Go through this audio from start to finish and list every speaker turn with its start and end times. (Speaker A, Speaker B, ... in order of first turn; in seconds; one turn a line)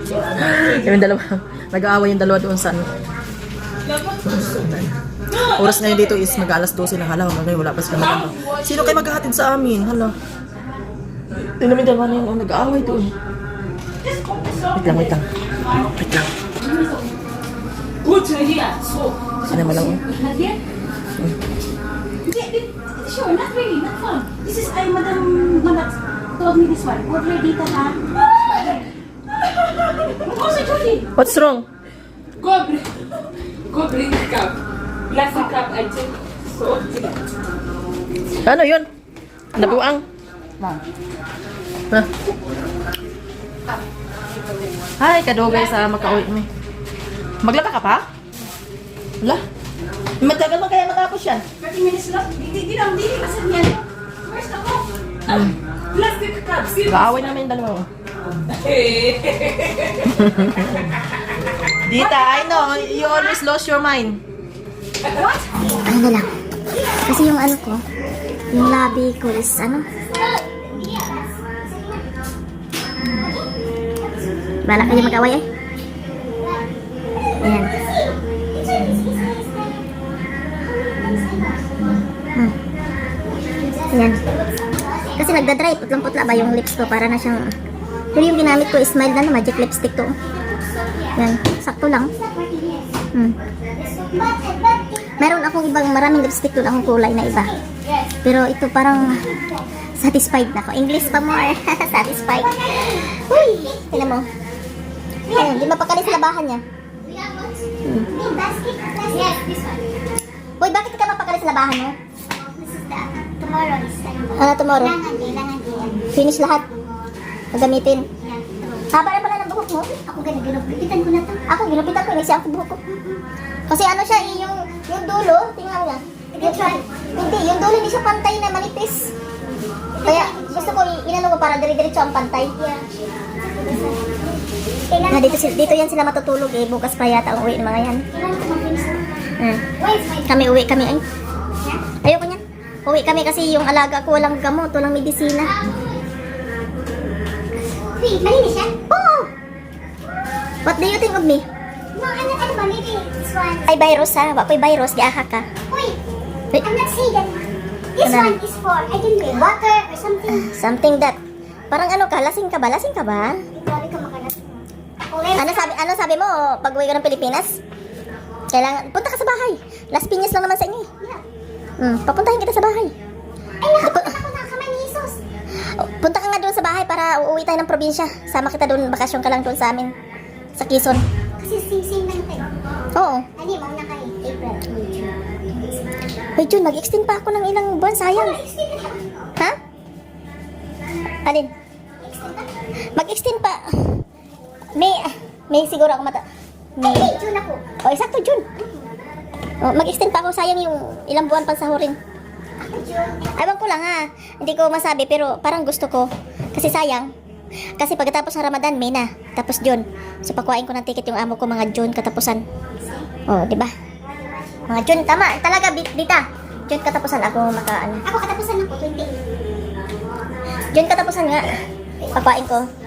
Speaker A: 0.3-2.9
Speaker A: 4.2-10.2
Speaker B: 8.1-9.0
Speaker A: 11.4-13.1
Speaker A: 14.8-16.3
Speaker C: 16.6-17.1
Speaker B: 18.0-19.3
Speaker A: 19.5-20.0
Speaker C: 19.8-20.6
Speaker C: 22.2-28.8
Speaker C: 30.1-31.1
Speaker A: 31.2-31.7
Speaker B: 32.4-33.0
Speaker B: 33.7-34.6
Speaker B: 35.1-37.2
Speaker A: 38.4-38.9
Speaker A: 39.5-40.0
Speaker A: 45.0-46.5
Speaker A: 47.4-48.0
Speaker A: 50.2-51.4
Speaker C: 51.6-54.9
Speaker A: 55.3-55.5
Speaker B: 55.3-57.2
Speaker A: 56.9-57.9
Speaker B: 58.5-60.1
Speaker A: 60.1-60.7
Speaker A: 61.9-64.2
Speaker C: 62.4-62.6
Speaker D: 65.8-66.3
Speaker D: 67.0-67.8
Speaker D: 68.5-69.8
Speaker E: 69.9-72.1
Speaker E: 73.0-73.5
Speaker D: 74.7-75.5
Speaker E: 74.8-75.2
Speaker E: 76.1-79.8
Speaker D: 77.4-77.7
Speaker E: 80.6-82.0
Speaker E: 83.2-85.6
Speaker D: 83.9-84.2
Speaker D: 85.2-87.5
Speaker E: 88.1-88.9
Speaker D: 88.2-90.2
Speaker E: 90.2-91.2
Speaker D: 91.2-92.1
Speaker E: 92.1-93.0
Speaker E: 93.7-95.4
Speaker D: 95.2-97.5
Speaker E: 97.5-98.1
Speaker D: 98.2-99.2
Speaker E: 99.2-99.7
Speaker D: 100.0-102.5
Speaker E: 102.4-104.1
Speaker D: 103.1-104.2
Speaker E: 105.2-106.2
Speaker D: 105.3-106.6
Speaker E: 107.0-109.9
Speaker D: 110.6-111.9
Speaker E: 112.4-116.1
Speaker D: 114.4-115.0
Speaker D: 116.1-116.7
Speaker D: 117.5-118.1
Speaker E: 118.2-118.9
Speaker D: 118.9-119.9
Speaker E: 120.0-121.4
Speaker D: 121.5-122.8
Speaker D: 123.7-129.1
Speaker E: 126.3-127.6
Speaker E: 129.9-130.8
Speaker D: 130.1-132.6
Speaker E: 132.6-135.9
Speaker D: 135.1-138.0
Speaker E: 138.1-139.0
Speaker E: 139.8-140.4
Speaker D: 140.3-141.0
Speaker D: 142.0-145.5
Speaker E: 145.5-146.0
Speaker E: 148.0-148.8
Speaker D: 148.9-149.3
Speaker D: 150.7-151.4
Speaker E: 151.9-153.7
Speaker D: 153.7-155.5
Speaker E: 155.7-156.0
Speaker E: 156.5-157.4
Speaker E: 157.9-160.4
Speaker D: 158.0-158.4
Speaker D: 160.3-161.2
Speaker D: 161.7-163.4
Speaker E: 163.5-165.7
Speaker D: 165.4-167.6
Speaker D: 168.5-170.9
Speaker D: 171.8-172.9
Speaker E: 173.6-175.2
Speaker D: 173.8-174.2
Speaker D: 175.8-179.9
Speaker D: 180.6-181.0
Speaker E: 181.4-182.5
Speaker D: 183.0-183.2
Speaker E: 183.4-185.2
Speaker D: 186.4-188.4
Speaker E: 188.1-189.1
Speaker E: 192.0-192.5
Speaker D: 193.0-194.0
Speaker D: 194.8-196.2
Speaker D: 196.8-197.1
Speaker E: 196.8-197.7
Speaker D: 197.8-198.4
Speaker E: 198.6-199.0
Speaker D: 199.6-202.0
Speaker E: 202.6-203.3
Speaker D: 203.4-207.1
Speaker D: 207.8-212.4
Speaker E: 212.8-213.1
Speaker D: 213.3-213.7
Speaker E: 214.1-214.7
Speaker D: 214.7-218.0
Speaker E: 218.1-219.2
Speaker D: 220.7-221.5
Speaker D: 222.1-222.7